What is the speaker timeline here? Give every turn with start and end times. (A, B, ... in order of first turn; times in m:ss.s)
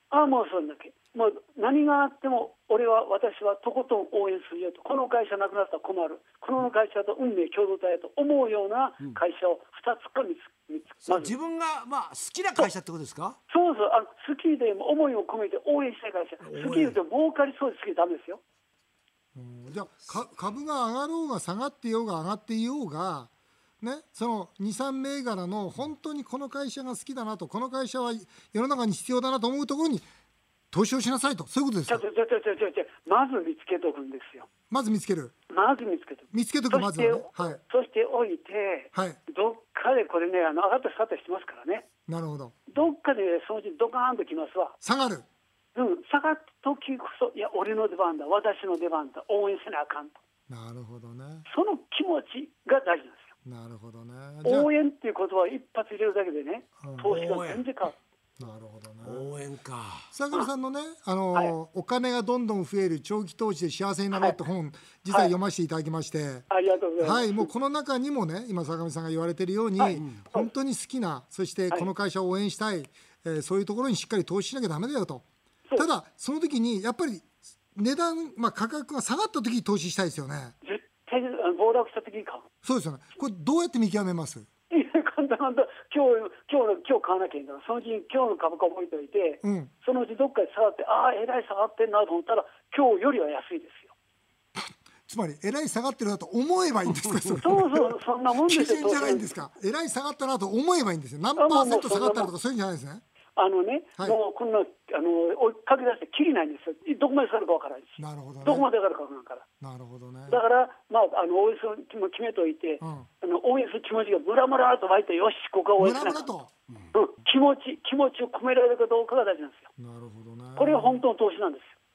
0:00.1-0:11.4 A
0:11.0-0:13.4 B
0:13.5-0:18.4 A
0:16.4-0:17.0 B
0:19.4-0:30.1 C
0:30.7-0:32.0 C
0:31.9-0:34.5 A
0:34.7-0:35.4 C
0:35.5-0:41.8 A
0:36.3-0:37.6 C
0:38.9-0:39.2 C
0:42.1-0:42.7 C
0:42.7-0:44.8 A
0:44.8-0:45.3 C
0:45.8-0:50.2 A
0:50.5-0:51.5 C
0:51.5-0:53.3 A
0:53.4-0:54.7 C
0:54.4-0:58.0 A
0:56.8-0:57.2 C
0:57.0-0:57.6 B
0:58.4-0:59.3 C
0:59.0-1:00.1 B
1:00.1-1:06.5 C
1:06.5-1:07.5 A
1:07.0-1:15.2 C
1:09.8-1:10.5 A
1:15.8-1:20.6 C
1:20.6-1:22.5 A
1:22.6-1:24.5 C
1:24.7-1:33.9 A
1:29.4-1:29.7 C
1:34.6-1:43.0 C
1:37.4-1:39.3 A
1:41.4-1:42.3 A
1:43.4-1:49.4 A
1:48.0-1:48.7 C
1:49.6-1:50.4 C
1:50.3-1:56.3 A
1:52.8-1:53.1 C
1:55.8-1:56.5 C
1:56.9-1:59.7 A
1:59.8-2:01.0 C
2:00.6-2:01.8 A